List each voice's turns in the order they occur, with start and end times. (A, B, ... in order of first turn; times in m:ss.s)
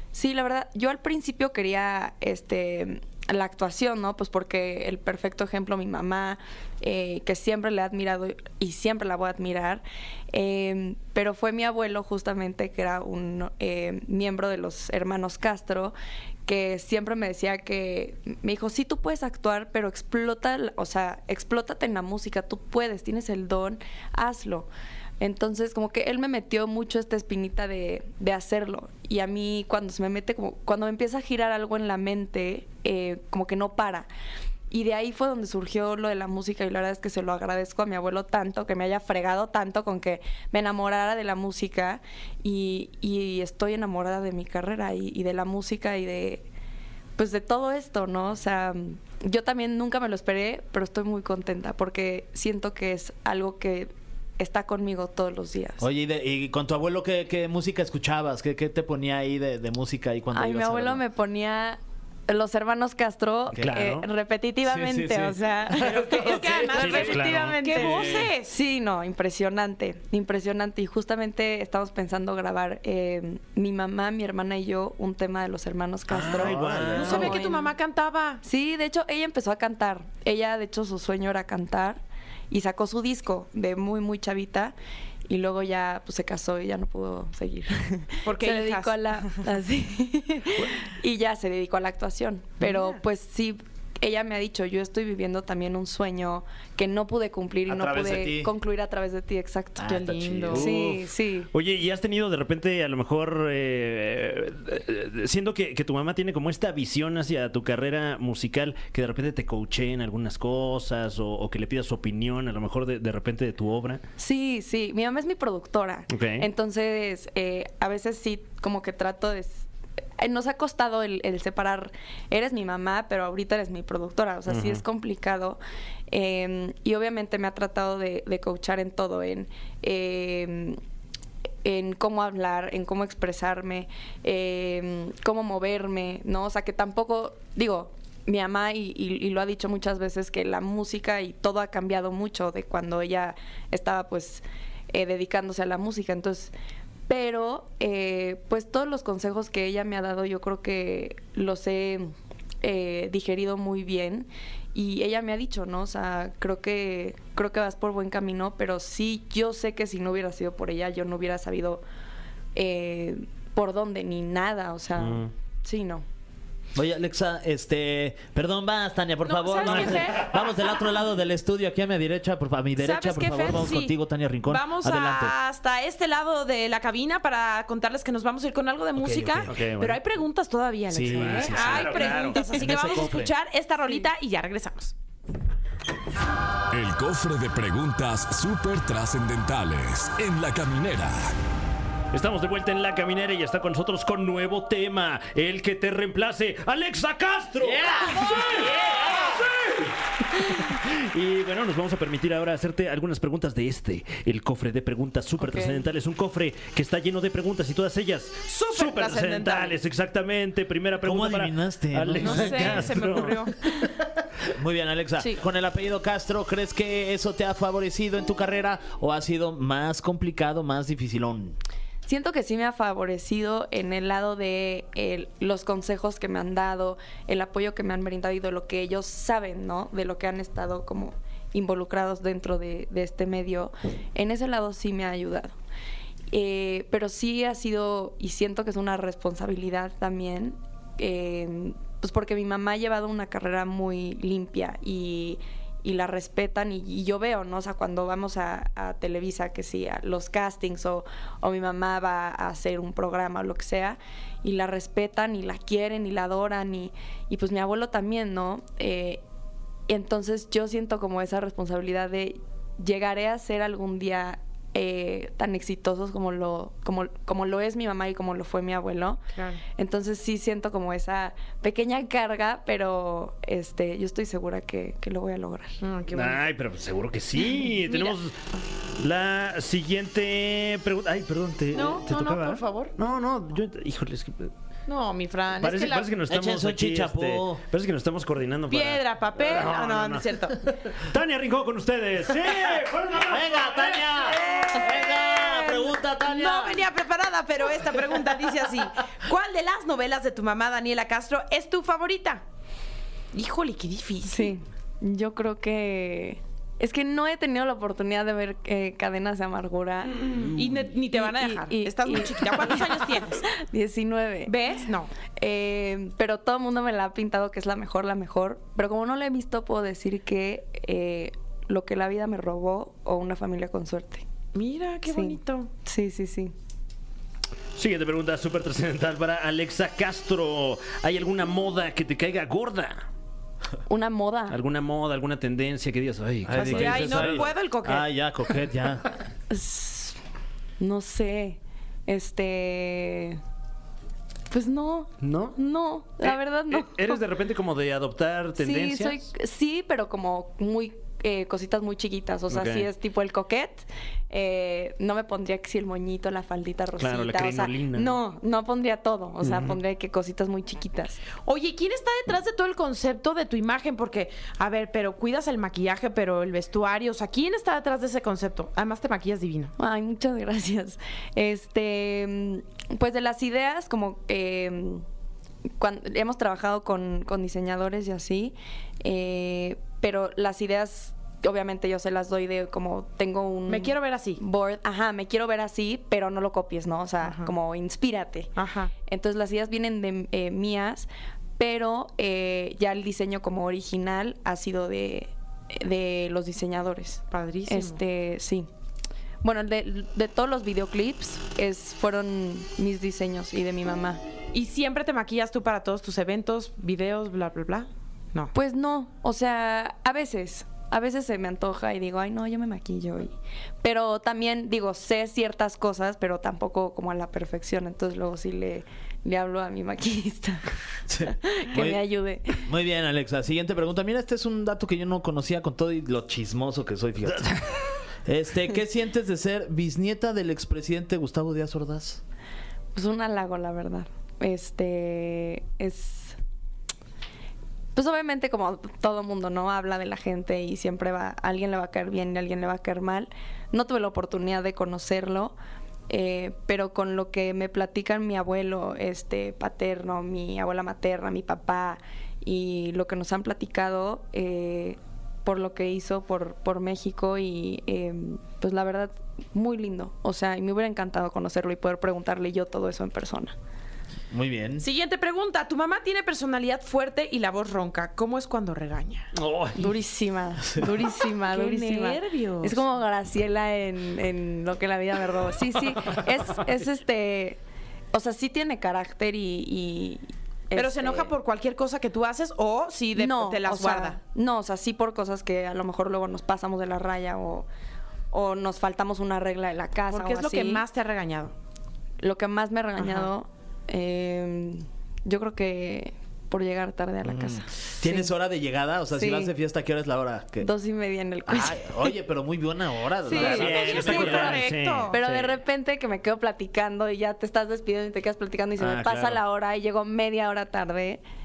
0:00.1-0:15.9 A
0:16.4-0:24.7 A
0:25.2-0:34.1 A
0:34.7-0:46.4 A
0:47.2-0:55.8 A
0:55.8-1:01.0 B
1:00.3-1:06.5 A
1:03.6-1:04.1 C
1:04.6-1:07.6 B
1:05.8-1:08.3 C
1:05.9-1:08.6 D
1:07.4-1:07.9 A
1:08.4-1:17.7 A
1:16.1-1:17.4 C
1:16.3-1:17.1 B
1:16.9-1:18.4 D
1:18.4-1:24.7 A
1:25.3-1:41.5 A
1:28.2-1:29.4 D
1:32.6-1:33.0 D
1:37.7-1:38.5 B
1:39.8-1:40.7 B
1:39.8-1:40.7 D
1:40.4-1:54.0 C
1:54.2-1:59.7 A
1:56.1-1:56.5 C
2:00.2-2:05.6 A
2:04.5-2:04.8 C
2:06.1-2:10.8 A
2:11.6-2:26.5 A
2:27.1-2:41.8 A
2:42.5-2:46.0 A
2:45.0-2:45.3 C
2:46.7-2:55.3 B
2:49.2-2:50.4 D
2:49.7-2:50.0 C
2:52.8-3:04.9 D
2:59.0-2:59.5 B
2:59.5-3:00.0 C
3:00.9-3:03.3 B
3:01.0-3:03.0 C
3:06.7-3:11.3 E
3:12.1-3:33.5 C
3:17.6-3:18.9 B
3:25.4-3:25.8 A
3:28.4-3:29.8 D
3:31.0-3:33.1 B
3:32.2-3:33.9 D
3:34.5-3:41.6 B
3:42.0-3:55.5 A
3:56.3-4:19.2 A
4:19.9-4:29.2 A
4:29.3-4:29.6 D
4:29.8-4:35.8 A
4:35.8-4:36.4 D
4:36.1-4:38.4 C
4:37.5-4:38.2 D
4:39.0-4:44.5 C
4:41.7-4:42.9 D
4:44.9-4:46.2 D
4:45.6-4:54.2 C
4:46.3-4:47.6 B
4:48.7-4:50.7 D
4:53.1-4:56.8 B
4:54.3-5:02.4 D
5:03.3-5:04.6 D
5:04.2-5:14.6 A
5:10.3-5:13.4 D
5:14.4-5:15.1 D
5:15.3-5:24.2 A
5:24.5-5:25.7 D
5:25.1-5:26.5 A
5:27.7-5:33.0 C
5:33.9-5:34.6 A
5:34.5-5:37.5 C
5:36.4-5:39.1 B
5:36.5-5:38.1 D
5:39.5-5:40.2 A
5:40.8-5:43.4 A
5:44.5-5:47.2 A
5:45.2-5:45.6 C
5:46.2-5:49.2 C
5:48.6-6:01.2 A
5:52.5-5:52.9 C
5:57.0-5:58.2 C
5:59.4-5:59.8 C
6:01.4-6:09.7 D
6:09.8-6:15.0 A
6:15.8-6:28.5 A
6:23.7-6:24.4 D
6:27.2-6:27.5 D
6:28.6-6:28.9 D
6:29.1-6:38.7 A
6:37.3-6:38.0 D
6:39.4-6:44.2 A
6:44.5-6:48.5 D
6:48.5-7:02.7 A
7:01.1-7:02.0 B
7:02.6-7:07.6 B
7:08.2-7:12.2 B
7:12.9-7:16.4 A
7:17.9-7:25.5 A
7:26.1-7:43.5 A
7:44.3-7:44.8 B
7:44.8-7:49.3 D
7:49.3-7:49.8 C
7:49.8-7:57.6 A
7:51.3-7:52.8 D
7:58.1-8:01.3 A
8:00.7-8:04.2 D
8:03.2-8:07.6 A
8:08.3-8:10.8 A
8:10.1-8:11.5 D
8:12.2-8:18.3 A
8:13.0-8:13.3 D
8:17.2-8:20.7 B
8:19.1-8:19.5 A
8:20.6-8:22.1 A
8:21.5-8:24.6 B
8:23.3-8:23.6 A
8:23.3-8:25.2 D
8:23.3-8:25.6 C
8:25.1-8:31.2 A
8:28.8-8:29.4 C